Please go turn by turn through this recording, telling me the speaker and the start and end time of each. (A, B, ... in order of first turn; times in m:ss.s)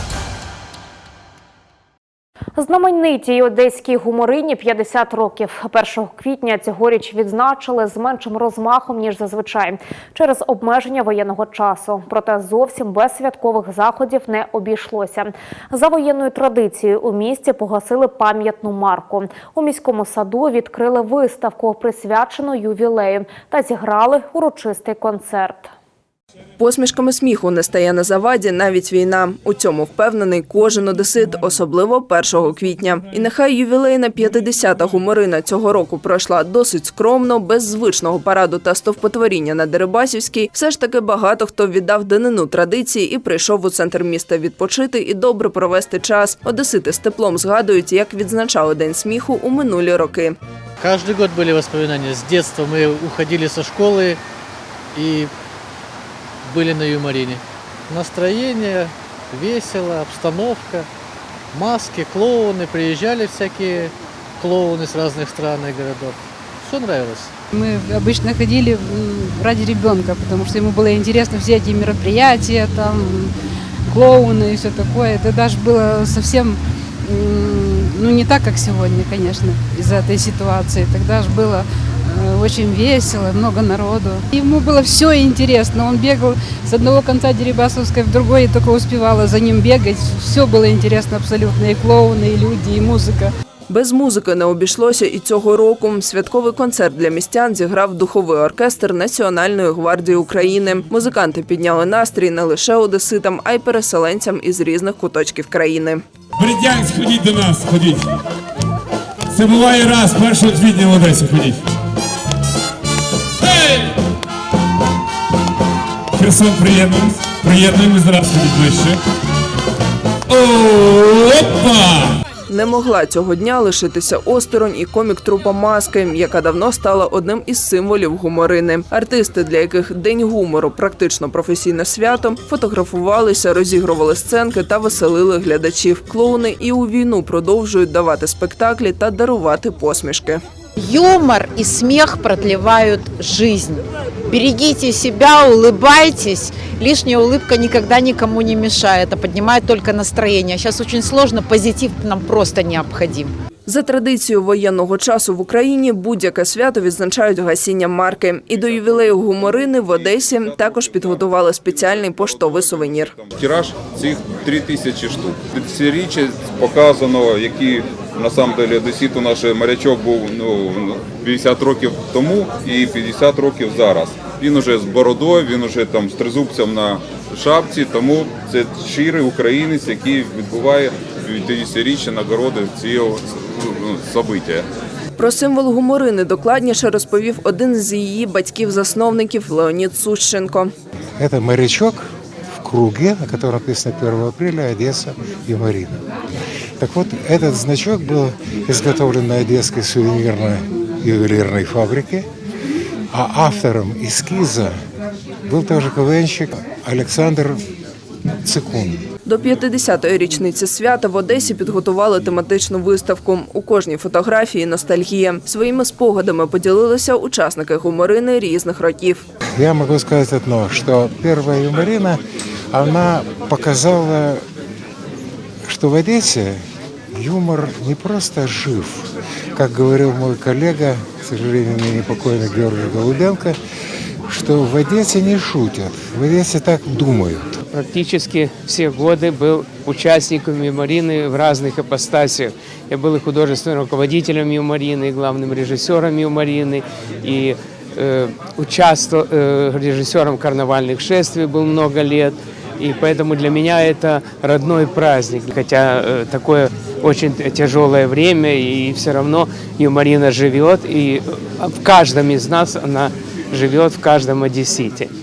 0:02.6-0:25.7 A
0:26.6-0:50.4 B
0:50.8-0:54.2 C
0:54.9-0:55.3 C
0:56.4-1:00.9 C
1:01.5-1:07.3 C
1:07.5-1:13.3 D
1:13.9-1:33.3 D
1:33.7-1:46.0 B
1:46.4-1:48.2 E
1:49.3-1:51.6 E
1:53.4-1:54.0 E
1:56.2-1:59.0 E
2:00.3-2:02.2 E
2:02.5-2:20.4 B
2:20.8-2:33.3 F
2:33.7-2:43.2 B
2:40.5-2:41.2 G
2:42.2-3:04.7 G
3:05.2-3:10.7 B
3:11.2-3:12.1 H
3:12.6-3:16.0 H
3:16.8-3:22.3 H
3:23.1-3:24.8 H
3:25.5-3:27.6 H
3:28.4-3:29.0 H
3:29.3-3:39.3 B
3:39.6-3:42.2 H
3:42.7-3:44.5 H
3:45.6-3:46.6 H
3:47.2-3:53.6 H
3:54.3-3:57.6 H
3:57.7-4:25.1 I